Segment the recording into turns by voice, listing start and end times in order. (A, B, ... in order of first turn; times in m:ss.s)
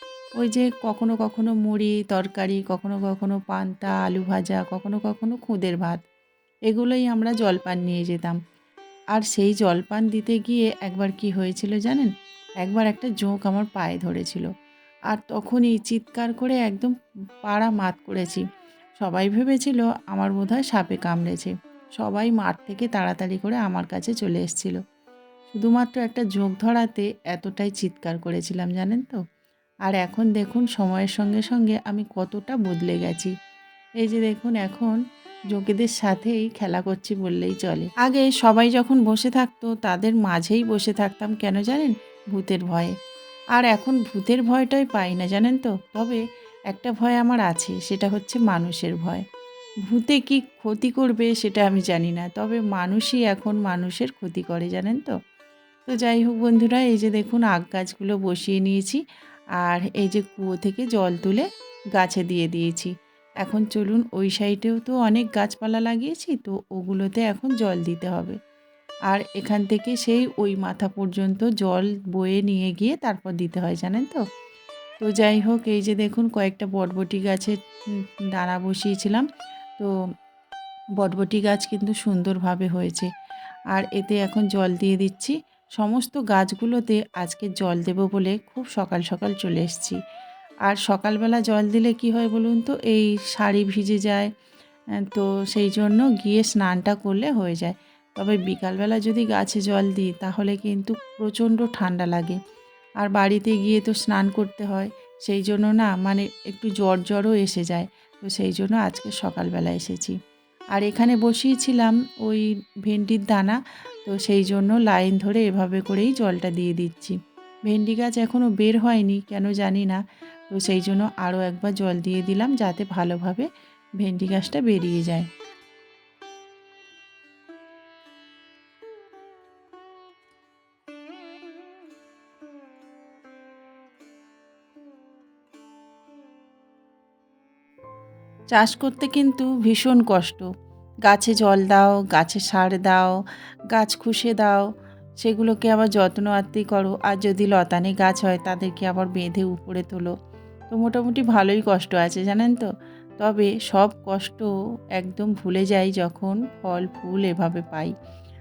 0:00.4-0:06.0 A
0:06.7-0:08.4 A
0:09.1-0:14.5 A
0:15.1-0:16.9 A
0:17.4-0:18.4 A
0:19.0-0:24.8 A
0:25.5-0:29.2 A
0:29.9-0:33.3 A
0:34.0-0:35.0 A
0:35.5-0:42.9 A
0:43.6-0:49.2 A
0:49.9-0:55.2 A
0:55.9-0:59.0 A
0:59.6-1:01.4 A
1:02.0-1:08.4 A
1:09.1-1:14.2 A
1:15.0-1:17.6 A
1:18.4-1:19.3 A
1:21.0-1:23.1 A
1:23.7-1:30.0 A
1:30.7-1:34.3 A
1:35.1-1:42.4 A
1:43.0-1:50.2 A
1:50.8-2:00.0 A
2:00.5-2:03.5 A
2:04.0-2:05.3 A
2:18.5-2:20.5 A
2:21.1-2:23.1 A
2:23.7-2:24.6 A
2:25.2-2:30.1 A
2:30.7-2:32.7 A
2:33.2-2:37.9 A